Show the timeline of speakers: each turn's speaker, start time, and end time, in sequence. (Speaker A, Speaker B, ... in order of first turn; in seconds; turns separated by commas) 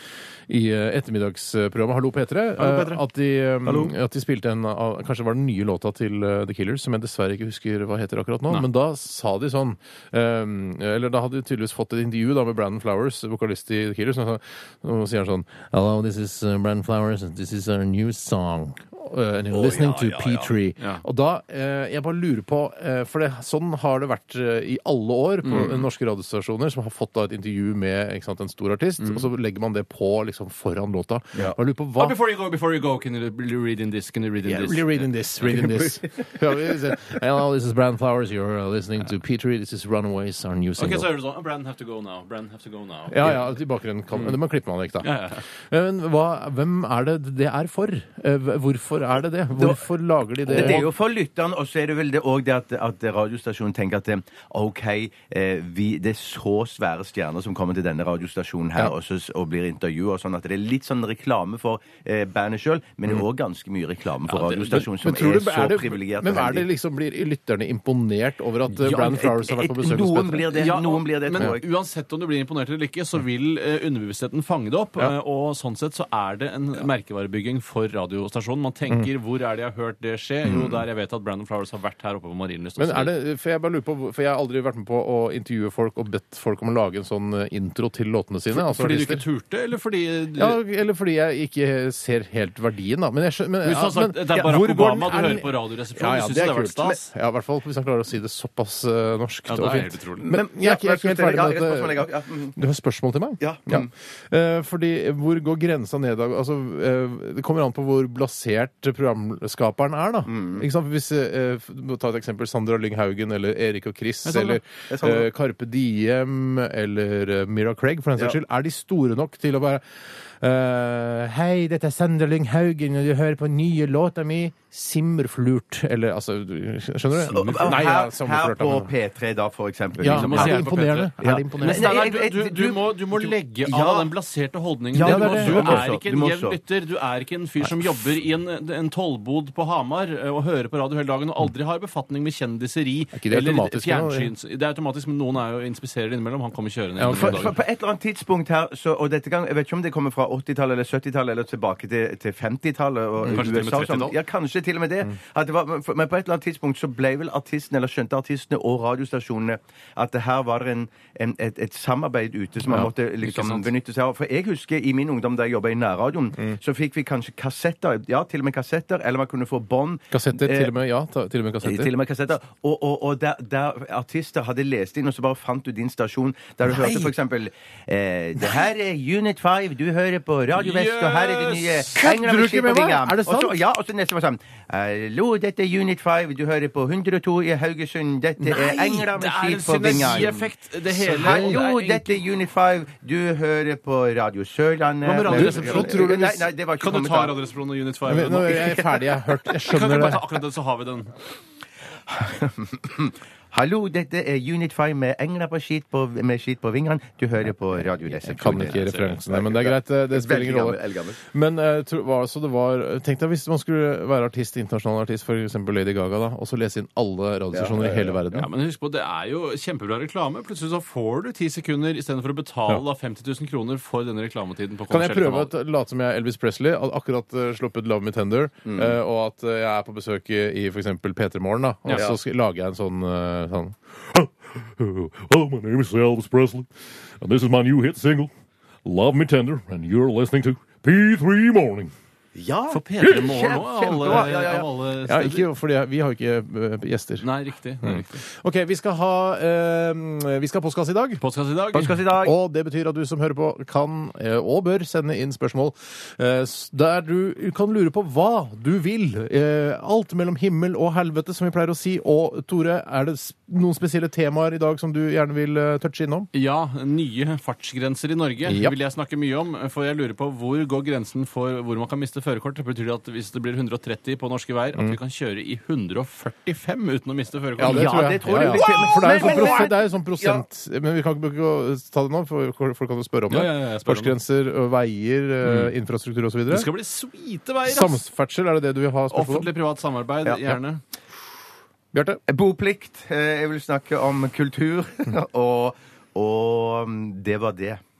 Speaker A: 0.5-32.2, Speaker B: 2.6-2.9, Speaker B: 3.6-3.9, Speaker B: 19.5-20.5, Speaker C: 25.4-25.8, Speaker C: 32.0-35.6, Speaker A: 34.5-41.1, Speaker C: 40.8-43.5, Speaker A: 43.1-50.8, Speaker C: 45.0-45.5, Speaker B: 49.5-49.9, Speaker B: 50.4-66.7, Speaker C: 50.5-50.9, Speaker C: 64.3-64.9, Speaker A: 64.9-70.5, Speaker B: 68.8-71.6, Speaker C: 70.5-83.1, Speaker A: 82.8-89.2, Speaker C: 88.5-90.6, Speaker A: 90.3-128.9, Speaker C: 93.6-97.1, Speaker C: 99.5-100.3, Speaker B: 100.2-102.6, Speaker B: 103.4-103.9, Speaker B: 110.3-110.7, Speaker C: 114.2-114.6, Speaker B: 114.9-115.3, Speaker C: 127.2-127.8, Speaker B: 127.3-134.1, Speaker A: 130.0-131.9, Speaker C: 130.1-147.5, Speaker A: 134.9-135.9, Speaker B: 134.9-136.6, Speaker A: 143.1-144.3, Speaker A: 147.0-147.5, Speaker B: 147.1-170.7, Speaker C: 153.2-154.1, Speaker C: 163.2-163.7, Speaker A: 170.1-171.9, Speaker B: 171.6-190.5, Speaker A: 176.7-177.1, Speaker C: 180.5-182.0, Speaker A: 181.9-183.6, Speaker C: 188.5-192.1, Speaker A: 189.8-190.3, Speaker B: 191.0-197.4, Speaker A: 191.1-191.6, Speaker A: 195.0-196.4, Speaker C: 195.2-196.2, Speaker C: 196.8-198.8, Speaker A: 198.1-200.2, Speaker C: 199.7-201.1, Speaker B: 202.1-211.2, Speaker A: 208.2-218.5, Speaker C: 208.5-209.2, Speaker B: 217.5-218.2, Speaker C: 218.3-225.5, Speaker A: 224.9-238.3, Speaker B: 228.6-229.0, Speaker B: 231.9-232.2, Speaker A: 238.8-241.9, Speaker B: 242.3-244.7, Speaker C: 242.7-245.5, Speaker A: 243.0-243.3, Speaker A: 245.0-247.3, Speaker C: 247.2-248.2, Speaker A: 247.8-251.2, Speaker C: 251.2-252.0, Speaker B: 251.7-252.3, Speaker A: 252.1-266.3, Speaker C: 266.3-279.4, Speaker A: 268.4-268.7, Speaker A: 277.6-286.7, Speaker B: 277.6-280.4, Speaker C: 283.3-284.2, Speaker C: 285.4-285.7, Speaker C: 286.5-288.0, Speaker A: 287.6-289.5, Speaker C: 289.1-290.8, Speaker B: 290.2-290.6, Speaker A: 291.9-292.2, Speaker B: 292.3-297.8